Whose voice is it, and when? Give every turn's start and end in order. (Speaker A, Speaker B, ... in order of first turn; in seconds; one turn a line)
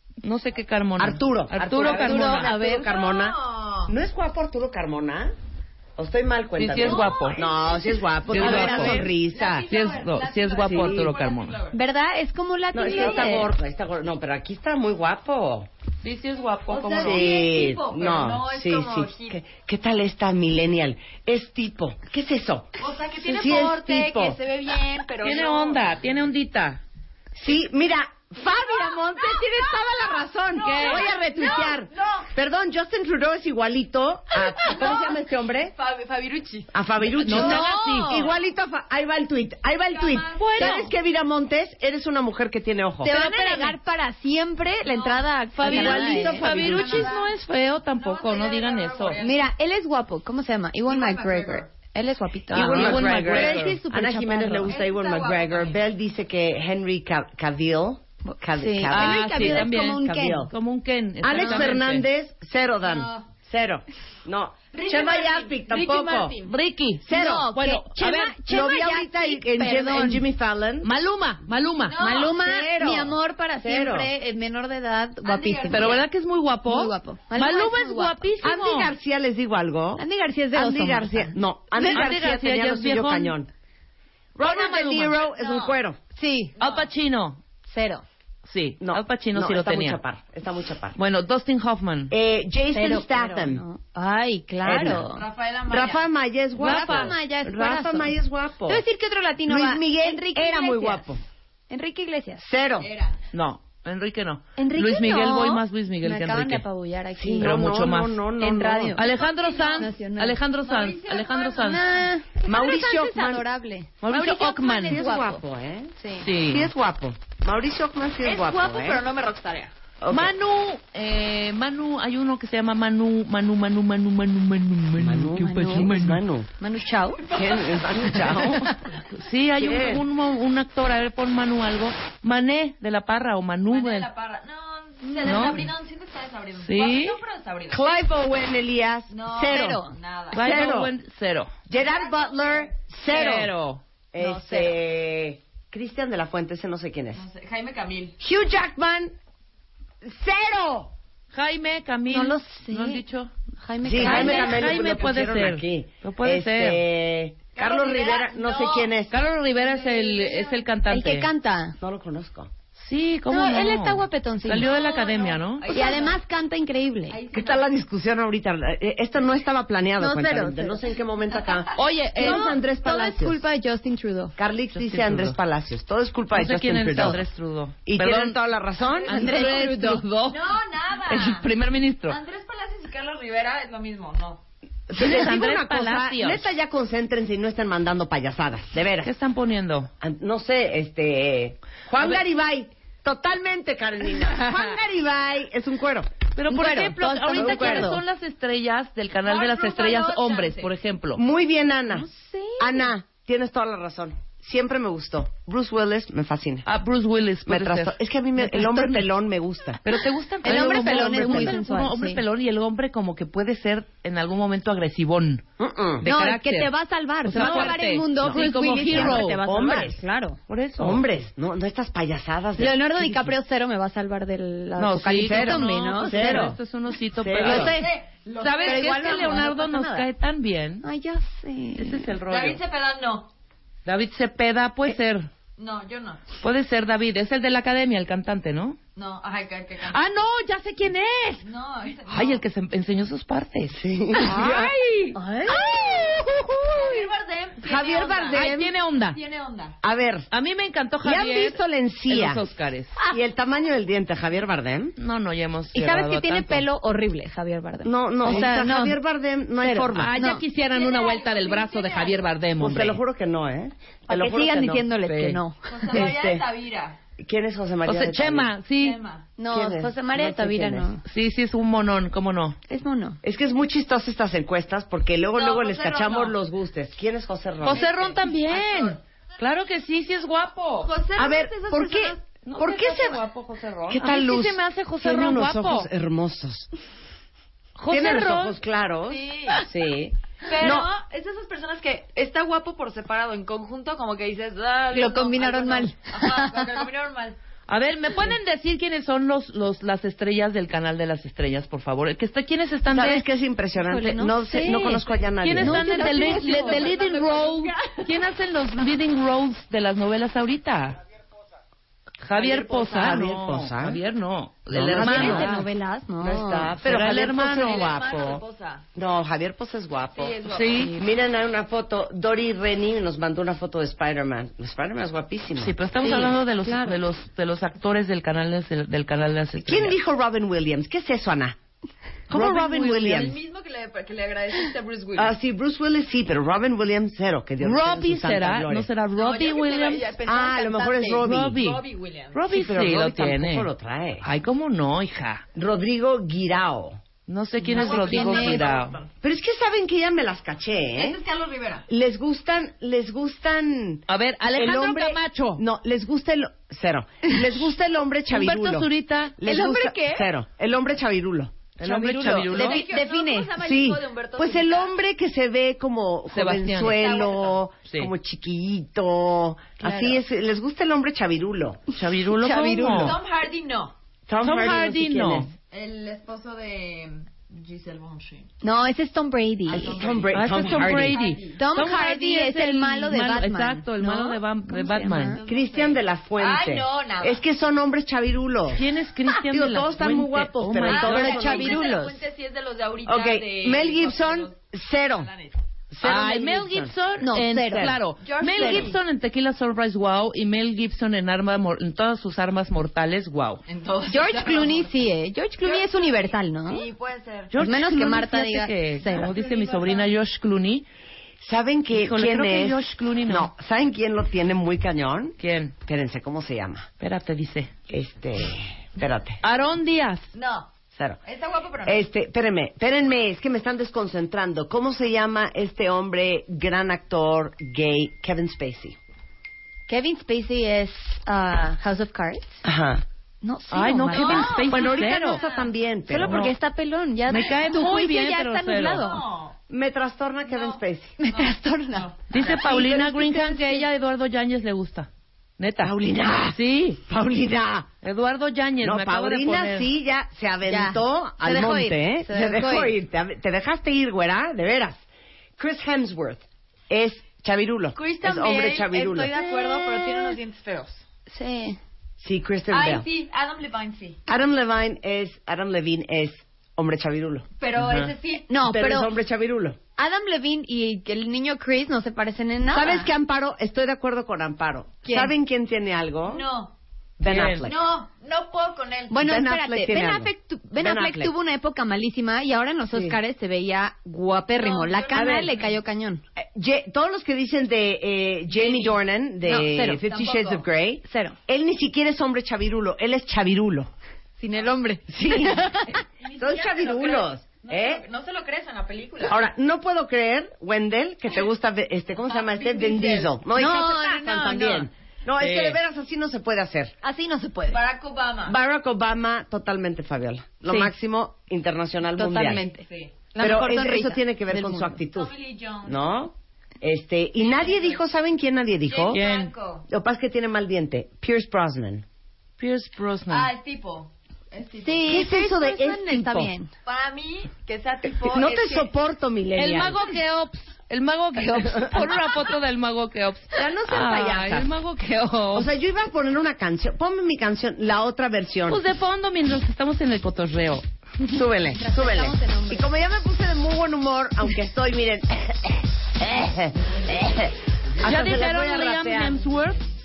Speaker A: 0.2-2.5
Speaker B: 1.0-5.3
Speaker C: 1.9-2.9
Speaker D: 2.4-3.9
Speaker B: 6.0-9.7
Speaker A: 6.6-7.5
Speaker D: 6.7-11.8
Speaker A: 8.3-9.1
Speaker C: 8.3-8.9
Speaker A: 9.7-11.6
Speaker B: 10.7-11.1
Speaker C: 11.7-13.5
Speaker B: 12.7-15.7
Speaker D: 12.8-13.3
Speaker A: 16.0-17.4
Speaker D: 16.7-19.4
Speaker B: 17.0-22.8
Speaker D: 22.8-26.0
Speaker A: 23.2-23.6
Speaker B: 23.3-24.4
Speaker A: 25.2-26.8
Speaker B: 27.4-35.8
Speaker D: 28.5-32.3
Speaker A: 30.6-31.1
Speaker D: 34.4-36.8
Speaker B: 36.7-43.1
Speaker A: 37.2-38.2
Speaker C: 37.3-38.3
Speaker D: 39.8-40.8
Speaker A: 40.4-40.9
Speaker A: 43.0-43.8
Speaker C: 43.0-46.4
Speaker D: 44.9-47.3
Speaker A: 45.6-49.2
Speaker B: 45.6-47.1
Speaker D: 48.0-49.5
Speaker C: 49.2-54.8
Speaker D: 50.9-51.7
Speaker B: 52.5-60.5
Speaker A: 52.5-53.8
Speaker D: 54.6-55.9
Speaker C: 58.2-60.5
Speaker A: 58.9-62.1
Speaker B: 61.2-66.4
Speaker D: 62.8-63.3
Speaker D: 64.7-66.5
Speaker A: 66.4-68.4
Speaker B: 67.0-70.9
Speaker C: 67.1-70.3
Speaker A: 70.8-72.2
Speaker D: 71.8-72.4
Speaker C: 72.0-76.0
Speaker B: 72.3-74.1
Speaker D: 75.2-76.1
Speaker A: 75.7-79.0
Speaker C: 76.7-78.2
Speaker B: 78.4-83.5
Speaker C: 80.0-81.4
Speaker A: 81.8-83.4
Speaker B: 84.4-86.0
Speaker A: 84.4-85.2
Speaker D: 85.2-85.8
Speaker C: 86.2-86.6
Speaker D: 86.6-86.9
Speaker A: 86.6-87.4
Speaker C: 87.6-88.0
Speaker A: 88.5-90.0
Speaker B: 88.8-91.0
Speaker A: 91.0-92.1
Speaker B: 92.1-93.6
Speaker C: 92.7-95.3
Speaker B: 94.6-95.1
Speaker D: 95.1-96.0
Speaker B: 95.7-98.8
Speaker A: 96.6-97.2
Speaker C: 96.6-101.1
Speaker B: 99.5-101.2
Speaker C: 101.7-102.5
Speaker B: 102.4-102.9
Speaker D: 102.8-103.2
Speaker A: 103.3-106.6
Speaker C: 104.6-107.7
Speaker B: 107.2-109.0
Speaker A: 107.4-108.2
Speaker C: 108.4-109.0
Speaker A: 109.0-111.9
Speaker D: 109.0-110.0
Speaker C: 109.8-110.4
Speaker D: 110.5-112.1
Speaker C: 111.6-115.4
Speaker B: 112.5-113.5
Speaker A: 114.0-115.0
Speaker B: 114.1-119.0
Speaker C: 116.0-116.3
Speaker A: 116.2-116.7
Speaker D: 118.2-119.7
Speaker B: 120.0-120.3
Speaker A: 120.1-126.2
Speaker B: 125.0-126.5
Speaker C: 125.3-126.0
Speaker C: 126.6-127.3
Speaker B: 127.3-128.7
Speaker D: 127.3-127.8
Speaker A: 129.1-134.1
Speaker B: 129.6-130.1
Speaker D: 133.7-138.3
Speaker C: 135.0-135.5
Speaker A: 135.2-135.7
Speaker A: 136.6-137.2
Speaker B: 137.7-139.8
Speaker D: 139.1-140.8
Speaker C: 139.4-139.9
Speaker A: 140.3-141.5
Speaker B: 140.3-140.9
Speaker B: 141.7-143.5
Speaker D: 141.7-142.8
Speaker A: 143.1-143.8
Speaker B: 144.1-147.3
Speaker C: 144.2-144.7
Speaker D: 147.2-148.2
Speaker B: 148.2-149.2
Speaker B: 150.0-150.9
Speaker A: 151.3-153.3
Speaker C: 152.1-153.0
Speaker C: 153.6-154.6
Speaker B: 153.8-159.1
Speaker A: 154.0-156.8
Speaker D: 154.1-155.2
Speaker D: 157.6-160.7
Speaker A: 159.1-161.3
Speaker C: 160.9-161.8
Speaker B: 161.8-162.5
Speaker A: 162.8-165.8
Speaker C: 163.3-164.7
Speaker D: 164.6-166.2
Speaker C: 165.7-167.2
Speaker D: 167.1-167.8
Speaker B: 167.3-173.4
Speaker C: 170.0-170.8
Speaker D: 171.4-171.8
Speaker A: 171.8-172.4
Speaker C: 172.2-174.3
Speaker B: 174.4-177.2
Speaker A: 174.7-175.4
Speaker A: 176.3-178.4
Speaker B: 177.9-179.2
Speaker D: 179.0-179.4
Speaker C: 179.1-180.1
Speaker A: 179.1-180.5
Speaker D: 180.3-181.5
Speaker A: 181.1-182.2
Speaker D: 182.1-184.4
Speaker B: 184.9-189.1
Speaker A: 184.9-186.5
Speaker A: 189.0-189.9
Speaker B: 190.0-196.1
Speaker A: 196.4-201.2
Speaker C: 196.5-198.0
Speaker B: 197.3-198.0
Speaker D: 199.2-200.7
Speaker B: 201.2-202.1
Speaker C: 201.9-202.9
Speaker B: 202.6-206.7
Speaker A: 206.7-209.1
Speaker B: 207.5-209.8
Speaker A: 209.8-215.4
Speaker B: 210.4-211.6
Speaker C: 210.4-212.2
Speaker B: 215.6-216.1
Speaker C: 216.0-220.4
Speaker A: 216.0-216.7
Speaker A: 217.2-219.7
Speaker B: 217.3-220.0
Speaker A: 220.5-221.0
Speaker B: 220.8-223.3
Speaker C: 222.6-226.5
Speaker A: 224.8-230.8
Speaker B: 225.2-226.6
Speaker B: 227.1-227.7
Speaker D: 227.4-229.4
Speaker C: 228.6-230.1
Speaker C: 230.8-232.1
Speaker A: 231.8-232.6
Speaker D: 232.3-233.3
Speaker A: 233.8-235.3
Speaker D: 235.6-236.3
Speaker A: 236.4-238.8
Speaker D: 239.0-240.0
Speaker A: 239.9-241.5
Speaker D: 241.4-242.4
Speaker A: 242.1-245.2
Speaker B: 243.7-244.8
Speaker C: 245.2-245.6
Speaker B: 245.5-247.0
Speaker D: 246.7-249.8
Speaker B: 247.6-248.7
Speaker A: 248.3-249.2
Speaker B: 249.8-250.3
Speaker A: 250.3-252.9
Speaker B: 251.0-252.4
Speaker B: 253.1-254.9
Speaker A: 255.0-256.7
Speaker C: 255.7-259.0
Speaker B: 257.8-260.1
Speaker A: 258.2-258.9
Speaker C: 259.6-260.4
Speaker A: 259.6-263.0
Speaker D: 260.6-262.3
Speaker B: 262.6-264.9
Speaker C: 264.1-266.0
Speaker A: 265.1-265.4
Speaker D: 265.7-267.0
Speaker B: 265.9-266.5
Speaker B: 267.2-268.5
Speaker A: 267.9-269.0
Speaker D: 268.8-269.3
Speaker C: 269.4-271.0
Speaker B: 269.5-271.0
Speaker A: 271.1-272.6
Speaker C: 272.7-273.2
Speaker B: 273.2-277.9
Speaker D: 275.4-276.4
Speaker D: 277.6-279.0
Speaker A: 277.6-280.9
Speaker D: 280.8-282.2
Speaker B: 281.2-283.2
Speaker A: 282.4-285.9
Speaker B: 283.9-286.7
Speaker A: 287.8-288.6
Speaker B: 287.9-290.9
Speaker D: 289.1-289.6
Speaker D: 290.4-297.4
Speaker C: 294.9-296.8
Speaker A: 297.7-303.2
Speaker B: 302.9-306.4
Speaker C: 303.9-305.0
Speaker A: 305.4-311.0
Speaker C: 305.6-307.5
Speaker D: 305.9-308.0
Speaker A: 312.2-315.6
Speaker D: 312.3-313.2
Speaker B: 312.9-314.0
Speaker B: 314.7-315.7
Speaker C: 315.0-316.8
Speaker B: 316.2-318.4
Speaker A: 316.8-317.9
Speaker D: 317.1-318.9
Speaker B: 318.9-325.8
Speaker D: 320.1-321.0
Speaker A: 320.5-321.0
Speaker A: 325.6-330.0
Speaker C: 326.0-327.0
Speaker B: 329.6-331.6
Speaker B: 332.3-333.4
Speaker A: 332.3-333.0
Speaker D: 332.7-335.4
Speaker B: 335.2-338.9
Speaker A: 337.6-340.1
Speaker D: 339.2-342.4
Speaker B: 340.2-341.6
Speaker A: 341.2-343.7
Speaker B: 342.5-344.3
Speaker A: 344.2-345.4
Speaker B: 345.6-347.0
Speaker A: 347.3-349.0
Speaker C: 347.6-348.6
Speaker D: 347.7-349.1
Speaker B: 349.2-351.2
Speaker D: 350.9-351.9
Speaker B: 351.9-362.7
Speaker A: 354.1-355.6
Speaker A: 358.3-359.4
Speaker C: 359.4-360.3
Speaker A: 361.8-362.8
Speaker D: 362.5-364.9
Speaker C: 362.5-363.5
Speaker B: 363.6-371.8
Speaker A: 366.3-367.0
Speaker D: 366.9-367.6
Speaker C: 369.8-370.2
Speaker A: 371.9-373.2
Speaker C: 372.3-373.0
Speaker B: 372.7-373.1
Speaker D: 372.9-373.9
Speaker B: 374.3-375.5
Speaker A: 374.4-375.5
Speaker D: 375.7-378.5
Speaker C: 378.6-380.1
Speaker D: 379.7-381.6
Speaker B: 379.7-381.2
Speaker A: 380.3-385.4
Speaker C: 381.6-385.4
Speaker D: 385.3-387.4
Speaker B: 385.5-392.0
Speaker A: 388.7-391.4
Speaker D: 390.9-395.6
Speaker C: 390.9-392.2
Speaker B: 393.1-395.3
Speaker B: 395.9-396.9
Speaker A: 396.0-403.6
Speaker C: 397.2-398.0
Speaker B: 397.7-398.0
Speaker D: 398.2-399.0
Speaker C: 398.5-398.9
Speaker D: 403.7-404.9
Speaker C: 404.1-406.9
Speaker D: 405.6-407.6
Speaker A: 407.5-410.9
Speaker C: 407.6-409.3
Speaker D: 409.1-410.2
Speaker B: 411.4-416.9
Speaker A: 411.9-413.5
Speaker A: 415.4-415.8
Speaker A: 417.0-417.7
Speaker B: 417.9-419.4
Speaker A: 419.4-420.3
Speaker D: 420.3-420.7
Speaker B: 420.9-421.2
Speaker D: 421.2-422.1
Speaker B: 421.9-429.0
Speaker C: 429.9-432.6
Speaker B: 432.6-433.0
Speaker C: 433.4-434.9
Speaker A: 433.7-435.4
Speaker D: 434.1-435.7
Speaker B: 434.7-436.5
Speaker C: 436.1-439.2
Speaker A: 436.2-436.5
Speaker A: 437.3-439.1
Speaker D: 437.3-437.7
Speaker D: 439.0-439.6
Speaker B: 439.7-441.1
Speaker D: 440.4-443.0
Speaker C: 441.2-442.1
Speaker A: 442.3-446.0
Speaker C: 442.8-443.8
Speaker B: 445.8-447.9
Speaker A: 446.5-447.0
Speaker A: 448.0-449.9
Speaker B: 448.8-455.0
Speaker C: 450.7-452.9
Speaker B: 455.6-459.3
Speaker D: 457.9-461.0
Speaker C: 459.4-460.4
Speaker C: 461.3-461.8
Speaker B: 462.2-463.1
Speaker D: 462.7-464.2
Speaker B: 464.3-467.5
Speaker D: 467.6-468.5
Speaker A: 467.8-468.1
Speaker C: 468.5-469.1
Speaker B: 468.6-469.8
Speaker C: 470.0-473.1
Speaker B: 472.7-476.5
Speaker C: 475.1-475.3
Speaker D: 476.2-476.7
Speaker B: 477.2-477.8
Speaker A: 477.2-477.7
Speaker D: 477.6-479.2
Speaker C: 479.1-486.2
Speaker B: 479.2-481.3
Speaker B: 482.9-483.2
Speaker D: 484.6-485.8
Speaker B: 485.1-485.6
Speaker B: 486.4-493.9
Speaker D: 488.5-489.0
Speaker C: 489.4-490.0
Speaker D: 489.5-490.7
Speaker C: 491.1-491.4
Speaker C: 494.4-496.0
Speaker B: 495.1-495.7
Speaker D: 496.2-499.4
Speaker B: 496.4-498.1
Speaker B: 499.2-506.9
Speaker D: 502.3-503.4
Speaker C: 503.5-504.9
Speaker A: 505.4-505.8
Speaker C: 507.0-507.8
Speaker D: 507.7-508.6
Speaker B: 508.4-512.7
Speaker A: 510.7-510.9
Speaker C: 512.2-515.0
Speaker D: 512.8-513.3
Speaker B: 513.4-515.3
Speaker D: 515.1-516.2
Speaker B: 515.8-519.2
Speaker D: 517.4-518.0
Speaker D: 518.9-519.9
Speaker A: 519.1-519.5
Speaker B: 519.9-522.0
Speaker A: 522.6-523.5
Speaker D: 523.3-525.3
Speaker C: 524.8-526.7
Speaker B: 525.1-526.5
Speaker D: 526.9-528.9
Speaker B: 528.2-530.0
Speaker A: 529.6-535.7
Speaker B: 533.6-534.7
Speaker B: 535.5-538.9
Speaker A: 538.7-540.8
Speaker B: 541.2-549.4
Speaker C: 541.8-542.9
Speaker A: 548.0-549.8